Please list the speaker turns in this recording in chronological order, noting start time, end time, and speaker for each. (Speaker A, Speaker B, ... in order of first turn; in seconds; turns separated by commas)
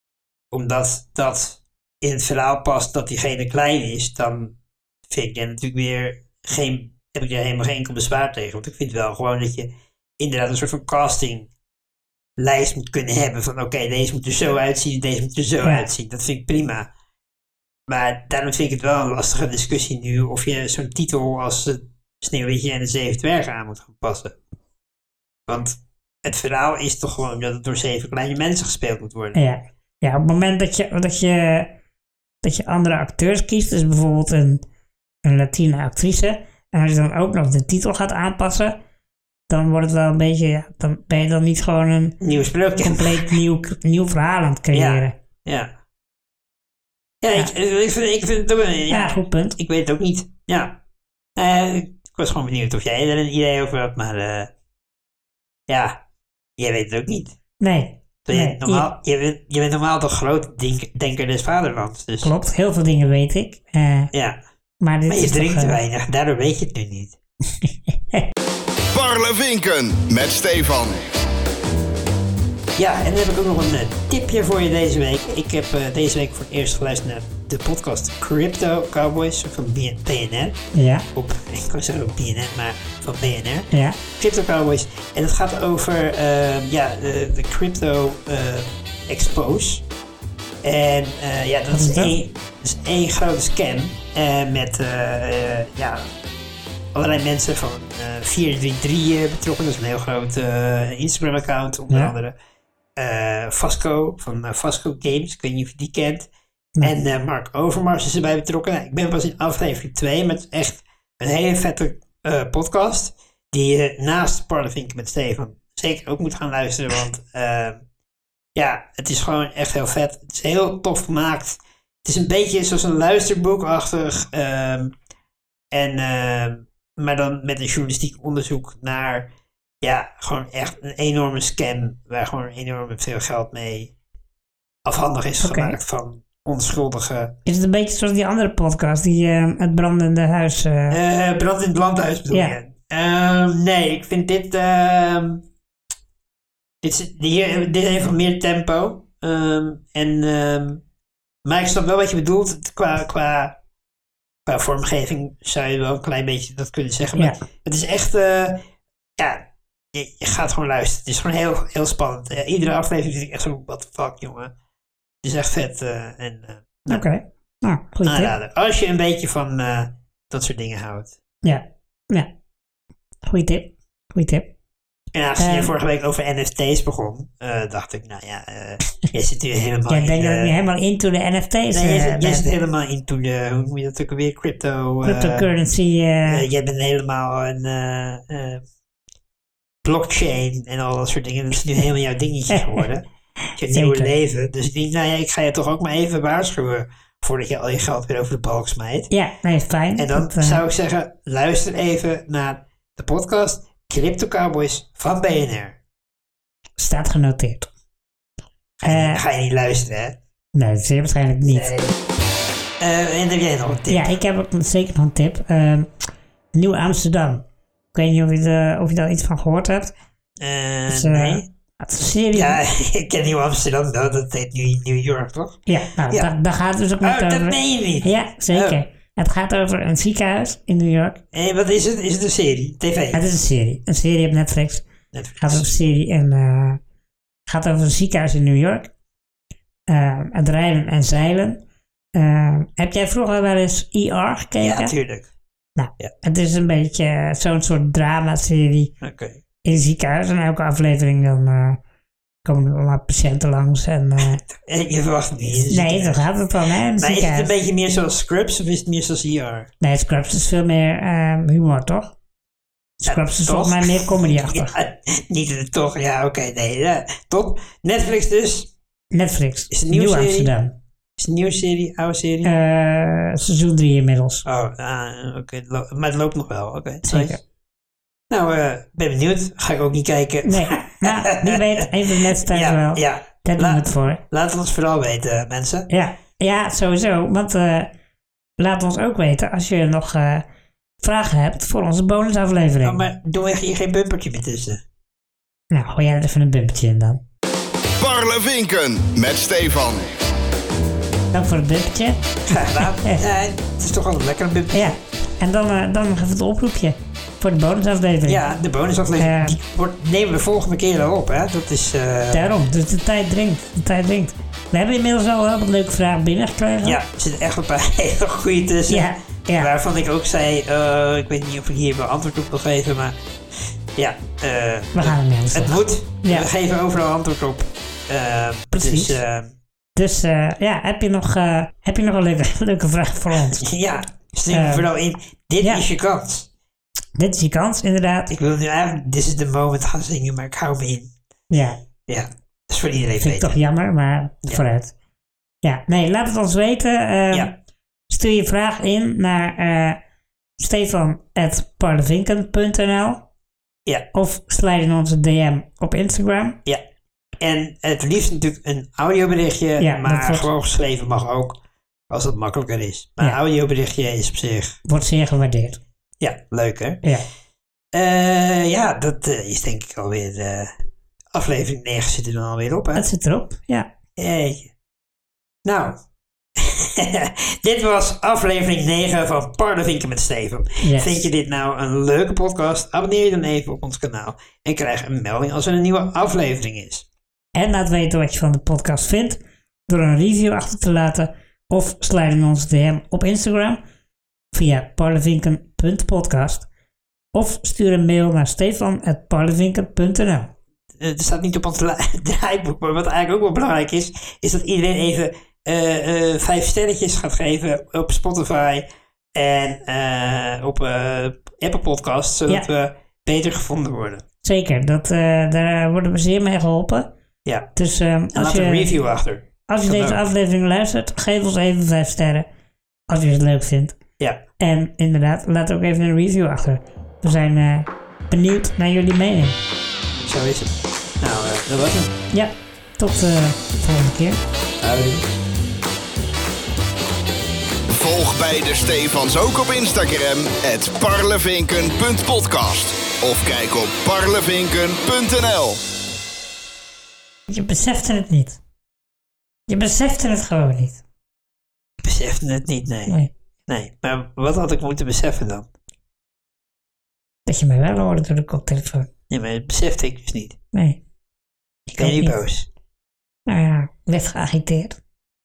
Speaker A: 0.5-4.6, Speaker A: 5.1-11.5, Speaker A: 12.4-16.9, Speaker A: 17.9-24.4, Speaker A: 25.5-29.4, Speaker B: 29.4-31.7, Speaker B: 32.4-34.6, Speaker B: 35.2-38.8, Speaker B: 39.5-42.2, Speaker A: 42.2-43.4, Speaker B: 42.8-45.2, Speaker A: 44.7-45.7, Speaker A: 47.2-50.8, Speaker B: 48.9-49.6, Speaker A: 51.4-54.5, Speaker A: 55.7-56.0, Speaker A: 56.6-57.4, Speaker B: 57.6-58.9, Speaker A: 58.3-62.3, Speaker B: 62.2-64.1, Speaker A: 64.1-64.4, Speaker B: 64.8-65.8, Speaker A: 65.1-67.2, Speaker C: 68.9-71.1, Speaker A: 72.8-80.6, Speaker B: 80.7-81.1, Speaker A: 81.1-89.8, Speaker B: 83.7-84.0, Speaker A: 90.6-96.1, Speaker B: 91.7-92.2, Speaker A: 96.9-102.3, Speaker B: 101.9-102.2, Speaker A: 103.0-106.3, Speaker A: 106.8-117.8, Speaker A: 118.5-125.0, Speaker A: 125.7-129.3, Speaker A: 129.8-133.9, Speaker A: 134.9-137.4, Speaker B: 135.4-135.8, Speaker B: 137.4-141.0, Speaker A: 140.9-145.4, Speaker B: 142.3-142.6, Speaker A: 146.8-150.8, Speaker A: 151.4-153.6, Speaker A: 154.5-158.6, Speaker A: 159.2-164.5, Speaker A: 165.2-167.0, Speaker B: 166.9-168.3, Speaker A: 168.1-171.2, Speaker B: 171.4-172.3, Speaker B: 173.3-174.5, Speaker A: 175.1-180.6, Speaker B: 175.4-175.7, Speaker B: 179.9-182.5, Speaker A: 181.7-185.5, Speaker B: 185.1-186.5, Speaker A: 186.2-188.6, Speaker A: 189.8-199.1, Speaker B: 192.5-192.9, Speaker B: 193.7-194.1, Speaker B: 199.1-200.6, Speaker A: 200.0-205.8, Speaker B: 206.8-207.7, Speaker A: 208.8-210.2, Speaker B: 208.8-209.2, Speaker B: 210.5-211.8, Speaker A: 211.6-211.9, Speaker A: 212.8-214.1, Speaker B: 213.9-215.9, Speaker B: 216.5-219.9, Speaker A: 220.4-221.5, Speaker B: 220.9-222.6, Speaker A: 222.3-226.3, Speaker B: 225.7-231.2, Speaker A: 227.0-228.8, Speaker A: 231.3-233.2, Speaker B: 233.1-234.9, Speaker A: 235.1-235.7, Speaker B: 235.4-236.8, Speaker B: 237.5-238.9, Speaker B: 239.9-241.6, Speaker B: 242.2-244.9, Speaker A: 244.6-245.3, Speaker B: 245.8-248.9, Speaker A: 249.0-249.4, Speaker B: 249.6-251.8, Speaker B: 252.4-254.4, Speaker A: 254.2-256.3, Speaker B: 255.7-257.5, Speaker A: 257.0-259.7, Speaker B: 259.8-262.1, Speaker B: 263.0-264.8, Speaker A: 263.1-268.7, Speaker B: 269.1-270.8, Speaker A: 269.7-270.5, Speaker A: 271.2-272.5, Speaker B: 272.4-274.5, Speaker A: 274.4-277.4, Speaker B: 277.1-277.4, Speaker A: 278.3-281.9, Speaker B: 280.4-284.2, Speaker A: 282.5-285.9, Speaker B: 285.9-287.9, Speaker B: 288.6-290.5, Speaker B: 291.0-293.0, Speaker A: 292.8-294.8, Speaker B: 295.7-297.2, Speaker C: 298.0-300.1, Speaker B: 301.3-303.2, Speaker A: 302.5-305.0, Speaker B: 304.7-308.4, Speaker A: 308.3-312.5, Speaker B: 309.2-309.6, Speaker B: 312.3-317.0, Speaker A: 316.8-323.2, Speaker B: 318.9-319.7, Speaker A: 324.0-329.5, Speaker B: 324.9-326.5, Speaker B: 328.7-329.2, Speaker B: 330.0-333.7, Speaker A: 333.6-336.5, Speaker B: 334.5-334.9, Speaker B: 337.2-338.3, Speaker A: 338.3-341.1, Speaker B: 341.5-341.8, Speaker A: 342.1-343.6, Speaker B: 343.2-344.9, Speaker B: 345.6-347.5, Speaker B: 348.1-350.0, Speaker B: 350.6-353.3, Speaker B: 354.1-356.6, Speaker A: 357.4-364.8, Speaker B: 359.8-360.5, Speaker B: 364.9-365.8, Speaker A: 366.2-367.0, Speaker A: 367.9-370.7, Speaker A: 371.3-373.0, Speaker B: 372.9-373.9, Speaker A: 374.2-374.7, Speaker A: 375.6-376.0, Speaker A: 376.6-387.1, Speaker B: 380.8-381.3, Speaker B: 387.6-393.8, Speaker B: 394.5-396.7, Speaker B: 397.3-400.5, Speaker A: 401.0-414.2, Speaker B: 414.4-417.1, Speaker B: 417.8-418.9, Speaker A: 418.3-420.2, Speaker B: 419.7-422.5, Speaker B: 423.1-424.0, Speaker B: 424.6-429.6, Speaker A: 430.2-432.1, Speaker B: 432.3-434.4, Speaker A: 434.8-435.3, Speaker C: 437.9-445.8, Speaker B: 447.5-448.6, Speaker B: 449.7-451.0, Speaker A: 452.0-455.7, Speaker B: 457.5-459.1, Speaker A: 459.3-460.6, Speaker B: 460.7-461.0, Speaker A: 461.9-462.7, Speaker B: 461.9-462.4, Speaker B: 463.5-465.0